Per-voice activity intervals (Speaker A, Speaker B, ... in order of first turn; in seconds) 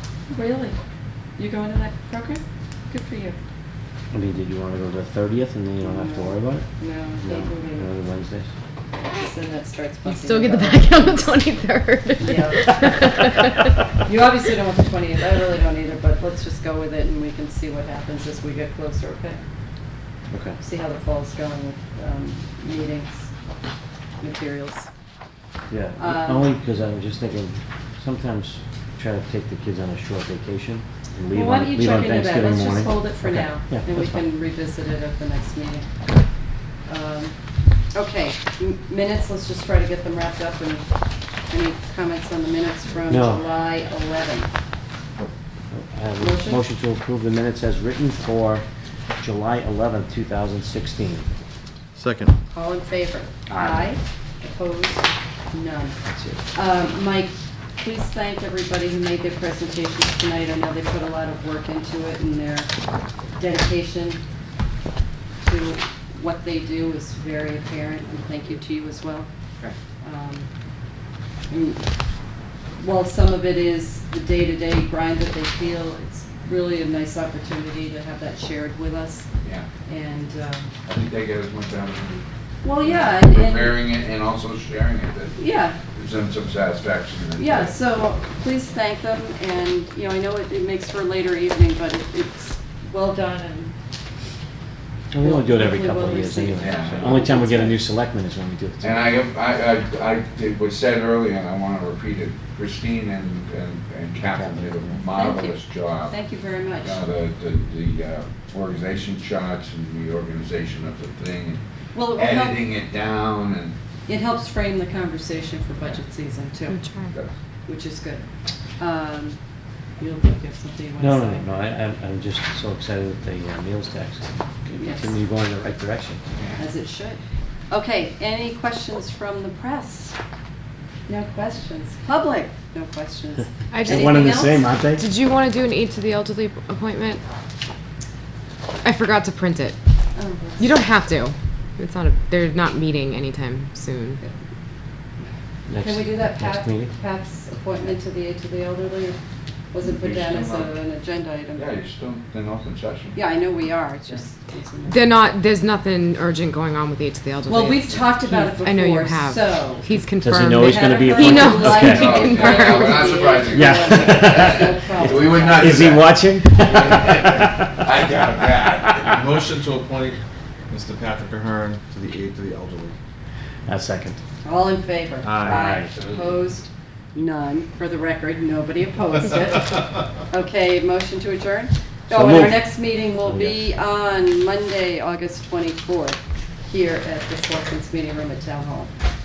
Speaker A: 0.3-0.8, 1.4-3.4, 5.8-7.8, 9.1-11.4, 12.2-13.3, 14.0-19.4, 20.6-23.3, 24.2-24.9, 26.0-26.4, 31.3-35.9, 36.9-37.3, 37.9-40.8, 41.5-44.5, 46.2-46.6, 52.5-56.0, 56.5-62.7, 63.4-64.2, 65.4-69.3, 70.0-70.5, 71.5-71.8, 72.8-79.3, 79.8-80.7, 82.6-83.8, 85.4-85.8, 87.4-93.7, 95.2-97.8, 105.1-107.0, 111.9-112.6, 114.1-116.8, 117.7-118.2, 118.8-119.4, 120.0-121.5, 124.8-125.1, 126.6-127.2, 127.7-130.1, 131.1-134.7, 140.1-140.8, 145.8-149.2, 149.7-151.7, 153.1-155.2, 157.5-159.9, 160.5-166.0, 174.4-188.9
Speaker B: 4.1-6.7, 7.2-8.5, 20.3-20.6, 25.7-34.2, 43.1-43.4, 45.7-48.6, 49.2-51.3, 53.5-54.0, 56.0-56.4, 95.1-99.0, 104.3-105.0, 121.0-126.2, 133.8-135.0, 145.7-146.9, 160.2-162.2, 163.5-167.7, 173.7-174.2, 175.3-175.9, 182.1-183.7
Speaker C: 10.0-13.6, 116.7-117.1, 133.7-137.2, 138.8-139.8, 140.6-144.2, 154.9-163.2
Speaker D: 52.0-52.3, 170.7-172.9, 175.2-175.7
Speaker E: 80.8-82.2, 82.8-85.4, 85.9-87.8, 96.6-97.2, 98.8-106.1, 106.8-111.6, 112.1-113.8, 126.3-126.6, 149.8-150.8, 151.6-153.2, 161.6-170.2, 175.9-176.3